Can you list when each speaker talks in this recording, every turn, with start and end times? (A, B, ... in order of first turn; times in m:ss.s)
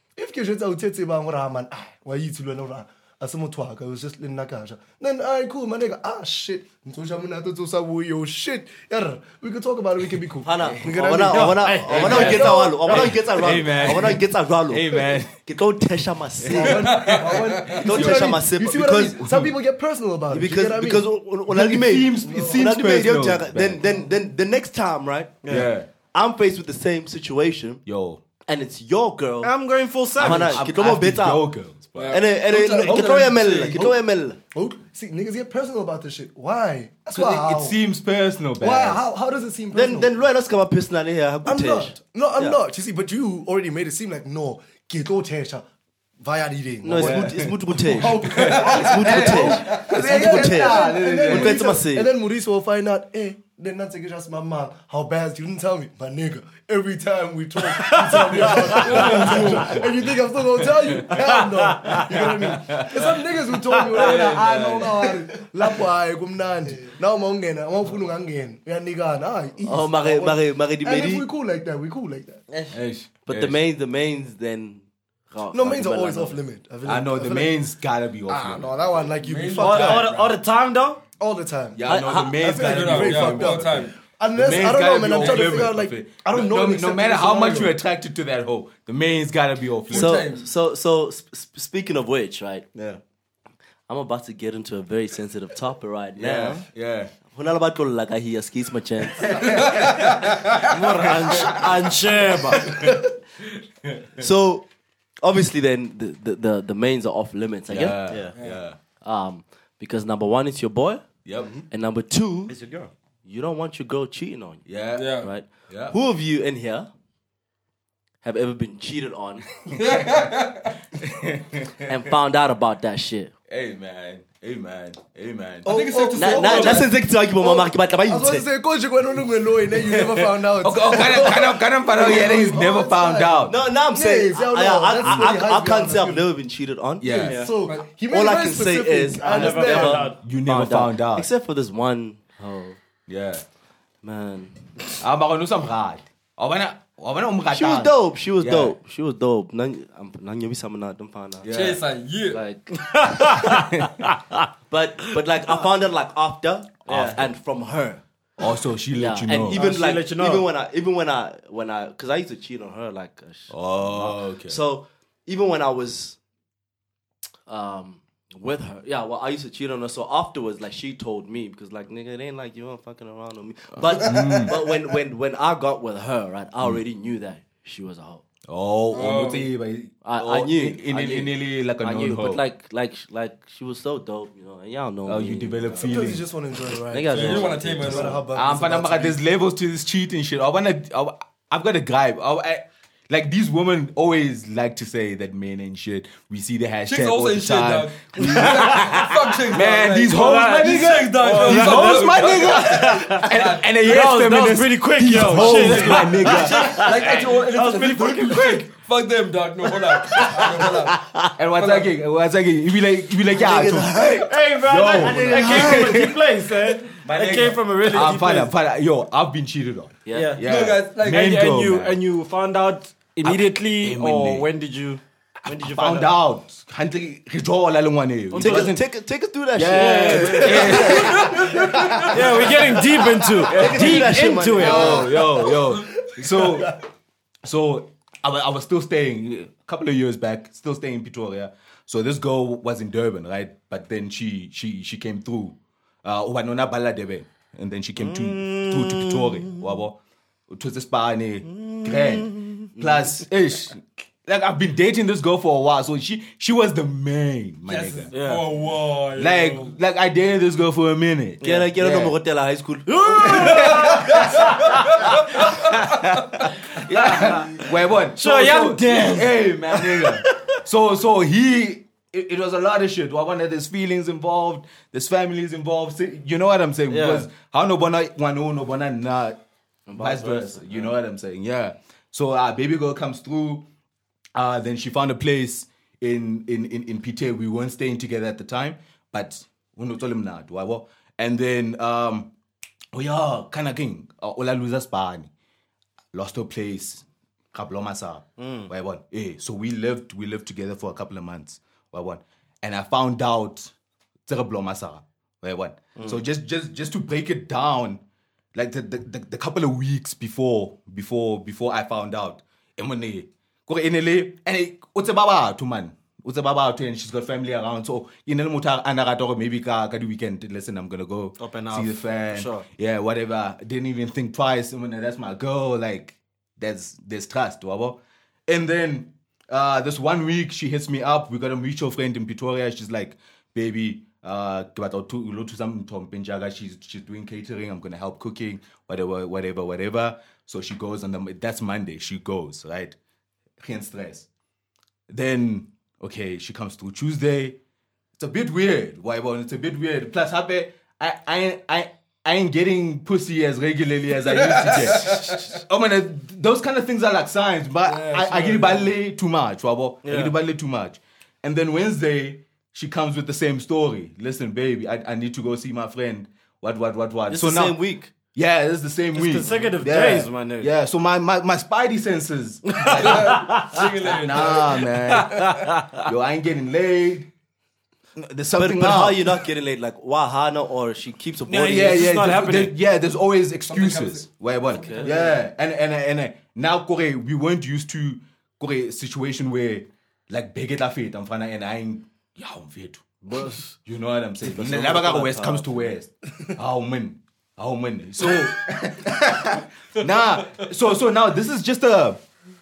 0:00.2-0:13.0 A
0:10.4-0:17.1 B
0:10.6-0:10.9 C
0:11.3-0:13.2 D
0:11.9-0:15.4 C
0:16.4-0:16.8 C
0:16.5-0:21.0 A
0:16.6-0:17.9 E
0:17.8-0:19.2 B
0:17.9-0:18.4 C
0:19.1-0:19.6 C
0:20.3-0:25.4 B
0:21.5-0:23.8 C
0:22.2-0:22.6 A
0:25.4-0:25.7 D
0:25.5-0:25.9 C
0:26.1-0:27.8 B
0:27.8-0:28.2 C
0:28.5-0:29.5 B
0:29.4-0:30.6 D
0:30.2-0:31.5 B
0:30.2-0:32.2 C
0:32.0-0:33.9 E
0:32.1-0:34.4 B
0:32.8-0:33.8 C
0:34.5-0:37.8 A
0:37.1-0:39.0 C
0:38.6-0:40.1 A
0:39.7-0:42.6 B
0:41.4-0:45.6 A
0:46.2-1:12.4 A
0:46.8-0:52.1 B
0:47.0-0:51.7 C
0:48.4-0:48.8 E
0:57.8-0:59.4 D
0:58.8-0:59.8 E
0:58.9-1:01.3 C
1:01.0-1:02.4 D
1:01.9-1:03.3 C
1:03.9-1:05.2 C
1:04.0-1:04.3 E
1:09.6-1:11.3 B
1:12.5-1:12.8 D
1:12.7-1:13.6 C
1:13.2-1:16.4 B
1:15.5-1:17.5 A
1:16.8-1:18.8 C
1:18.3-1:20.1 A
1:19.2-1:20.4 E
1:19.6-1:21.0 D
1:21.2-1:27.7 A
1:21.7-1:30.2 C
1:21.9-1:22.2 B
1:22.6-1:24.0 E
1:29.9-1:30.5 E
1:29.9-1:32.7 B
1:33.9-1:36.7 B
1:36.2-1:37.1 C
1:37.3-1:39.4 B
1:39.2-1:40.1 C
1:39.4-1:40.7 E
1:40.7-1:42.6 D
1:41.3-1:41.6 C
1:42.6-1:43.0 C
1:43.8-1:44.2 C
1:44.2-1:44.7 B
1:45.2-1:48.1 B
1:47.7-1:48.8 C
1:48.1-1:48.3 D
1:48.4-1:48.6 E
1:49.0-1:51.1 B
1:51.2-1:51.5 C
1:51.7-1:52.5 B
1:52.5-1:52.9 D
1:53.2-1:56.9 B
1:54.6-1:56.0 C
1:55.0-1:55.3 E
1:58.2-1:59.5 B
1:59.7-2:00.8 E
2:00.9-2:01.9 C
2:01.8-2:03.3 B
2:03.5-2:05.7 C
2:05.6-2:06.9 E
2:05.6-2:16.2 A
2:06.1-2:08.4 B
2:09.7-2:13.6 C
2:13.5-2:17.2 B
2:15.0-2:15.3 C
2:17.0-2:17.4 C
2:17.1-2:20.1 A
2:17.2-2:17.5 D
2:17.4-2:17.9 E
2:18.1-2:22.8 B
2:19.2-2:20.2 D
2:19.8-2:21.3 C
2:23.1-2:23.4 C
2:24.0-2:24.6 B
2:25.0-2:28.8 C
2:27.5-2:31.5 B
2:31.4-2:31.8 C
2:31.5-2:32.4 E
2:32.3-2:33.4 B
2:32.8-2:34.4 D
2:33.4-2:34.1 C
2:34.7-2:38.0 B
2:36.8-2:37.2 D
2:36.9-2:37.3 C
2:38.4-2:39.6 C
2:38.9-2:46.2 B
2:39.5-2:40.4 D
2:43.5-2:44.6 C
2:47.5-2:58.2 B
2:53.7-2:54.6 C
2:58.5-3:02.4 C
2:58.9-2:59.5 E
3:00.0-3:05.9 B
3:05.0-3:06.3 C
3:05.8-3:09.2 A
3:06.9-3:08.2 B
3:07.1-3:08.2 E
3:08.3-3:27.2 C
3:16.9-3:23.7 E
3:18.2-3:19.1 D
3:20.1-3:23.3 D
3:23.8-3:28.6 D
3:25.2-3:31.0 E
3:31.4-3:42.0 C
3:31.5-3:31.9 E
3:33.3-3:34.2 B
3:34.1-3:38.5 D
3:35.0-3:35.9 B
3:40.0-3:40.4 B
3:40.1-3:40.4 D
3:40.4-3:41.4 E
3:41.0-3:46.1 D
3:43.2-3:44.5 C
3:45.4-3:48.8 C
3:48.3-3:51.4 B
3:48.4-3:48.6 D
3:49.5-3:52.6 C
3:49.7-3:51.0 D
3:51.0-3:51.5 E
3:52.1-3:55.1 D
3:53.4-3:56.8 C
3:53.4-3:55.3 B
3:55.1-3:55.5 A
3:56.0-3:56.7 A
3:57.4-4:10.0 C
4:08.0-4:09.7 D
4:10.5-4:18.1 C
4:11.4-4:12.7 D
4:12.8-4:13.2 B
4:17.6-4:19.8 E
4:18.1-4:18.5 D
4:19.1-4:22.1 C
4:21.4-4:21.7 D
4:21.4-4:23.6 B
4:22.9-4:25.8 D
4:23.1-4:39.4 C
4:26.7-4:27.6 D
4:28.2-4:30.2 D
4:36.9-4:37.3 D
4:39.9-4:40.9 B
4:39.9-4:43.7 C
4:44.3-4:52.3 C
4:52.9-4:55.3 C
4:56.1-5:03.7 C
4:58.4-4:58.7 D
5:04.2-5:08.0 C
5:08.5-5:42.9 C
5:21.4-5:22.6 D
5:43.6-5:44.3 C
5:45.1-5:47.6 C
5:48.2-6:07.8 C
5:54.4-5:55.4 E
5:57.8-5:58.9 E
6:00.0-6:00.3 D
6:07.3-6:08.1 B
6:08.3-6:17.3 C
6:09.1-6:10.7 D
6:12.8-6:13.8 D
6:12.8-6:15.5 E
6:15.2-6:16.1 D
6:18.2-6:19.4 C
6:18.5-6:22.0 B
6:21.5-6:42.2 C
6:21.5-6:22.8 D
6:23.7-6:25.4 E
6:24.8-6:25.2 B
6:33.2-6:33.7 D
6:34.4-6:35.9 B